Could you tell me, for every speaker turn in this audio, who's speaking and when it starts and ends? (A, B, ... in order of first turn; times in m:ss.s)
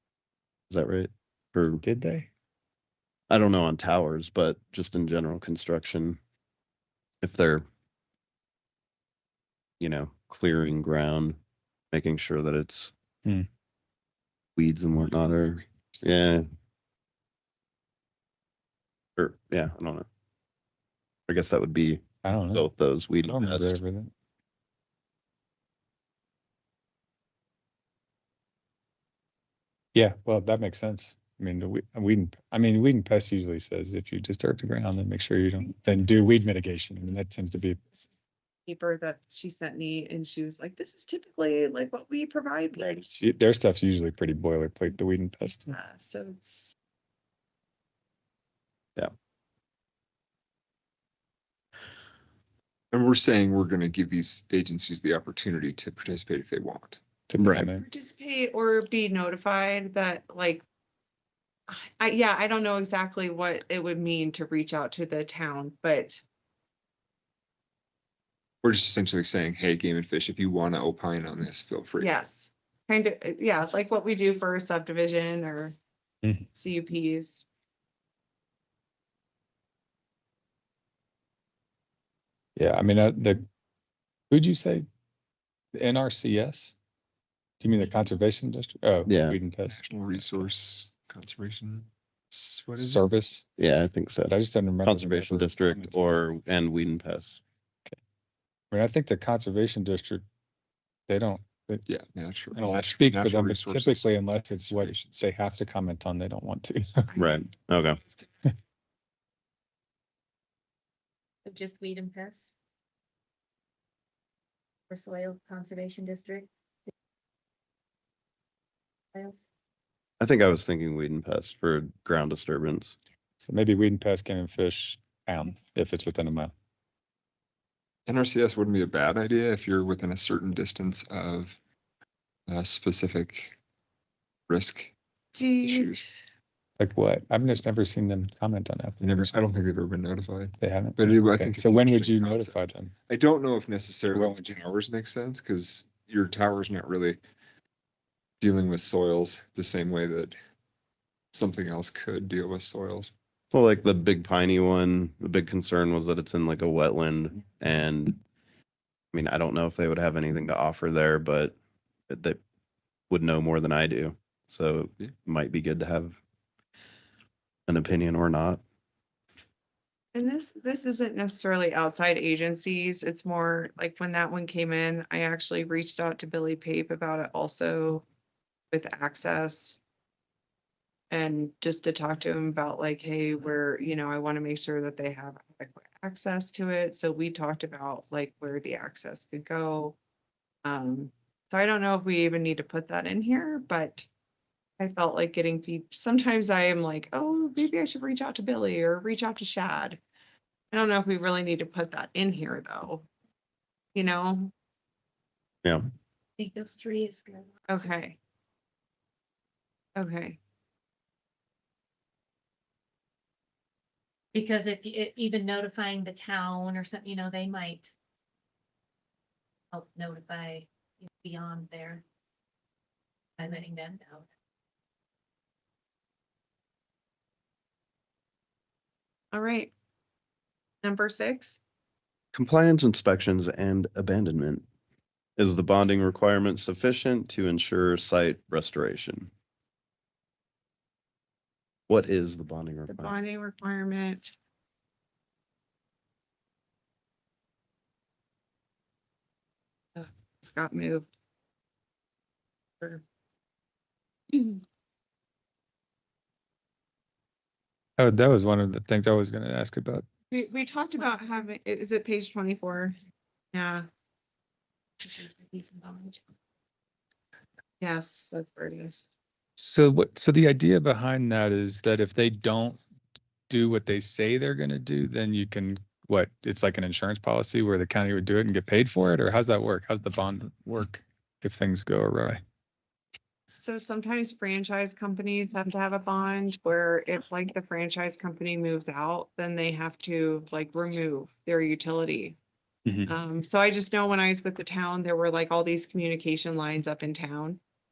0:00.7-0:01.8 A
0:01.8-0:02.3 B
0:03.3-0:06.2 A
0:07.2-0:07.7 A
0:09.8-0:11.4 A
0:11.9-0:12.9 A
0:14.6-0:16.5 A
0:19.2-0:20.1 A
0:21.3-0:23.8 A
0:22.2-0:22.7 B
0:23.2-0:24.1 B
0:30.0-0:37.8 B
0:38.7-0:43.2 C
0:43.2-0:45.8 B
0:45.7-0:46.7 C
0:52.9-0:57.0 D
0:57.3-0:57.8 B
0:57.4-0:57.7 A
0:57.8-1:00.6 C
1:01.7-1:06.2 C
1:08.6-1:12.1 D
1:12.0-1:15.8 C
1:16.2-1:16.5 B
1:16.6-1:17.5 C
1:22.6-1:23.5 B
1:24.3-1:24.9 B
1:25.7-1:26.8 B
1:27.6-1:30.5 B
1:29.1-1:29.4 A
1:29.7-1:33.1 D
1:32.8-1:33.4 B
1:33.6-1:37.4 A
1:34.3-1:35.9 B
1:38.7-1:40.2 B
1:41.1-1:41.8 B
1:41.9-1:45.6 D
1:42.5-1:47.1 B
1:47.2-1:48.0 A
1:51.4-1:52.6 E
1:54.9-1:56.5 E
1:59.2-1:59.5 E
2:00.2-2:03.0 A
2:03.4-2:06.5 B
2:08.1-2:11.6 D
2:12.5-2:13.6 D
2:14.5-2:15.0 D
2:15.3-2:16.0 C
2:15.6-2:16.1 D
2:16.8-2:19.3 B
2:19.0-2:27.2 D
2:20.6-2:22.9 B
2:24.1-2:24.4 B
2:28.4-2:30.4 D
2:31.3-2:33.1 D
2:33.5-2:38.2 A
2:39.1-2:41.6 A
2:42.1-2:42.4 A
2:43.1-2:46.2 A
2:47.7-2:48.6 A
2:50.1-2:58.0 C
2:58.7-2:59.8 C
3:01.1-3:10.0 C
3:10.6-3:14.1 C
3:14.8-3:20.0 C
3:20.7-3:23.1 C
3:24.0-3:24.5 C
3:26.4-3:27.8 E
3:27.7-3:28.2 C
3:30.0-3:30.4 C
3:34.3-3:37.9 E
3:39.7-3:42.0 E
3:43.4-3:44.3 E
3:49.3-3:49.7 C
3:50.8-3:51.6 C
3:52.3-3:54.6 A
3:55.4-3:59.3 A
4:01.9-4:03.2 A
4:02.9-4:04.3 C
4:10.0-4:11.1 C
4:14.3-4:14.6 C
4:18.0-4:20.0 B
4:20.3-4:23.0 C
4:23.5-4:23.9 C
4:25.0-4:26.2 C
4:27.8-4:29.0 C
4:29.6-4:32.8 B
4:33.5-4:42.4 B
4:43.5-4:52.4 C
4:52.9-4:53.1 B
4:53.1-4:57.6 C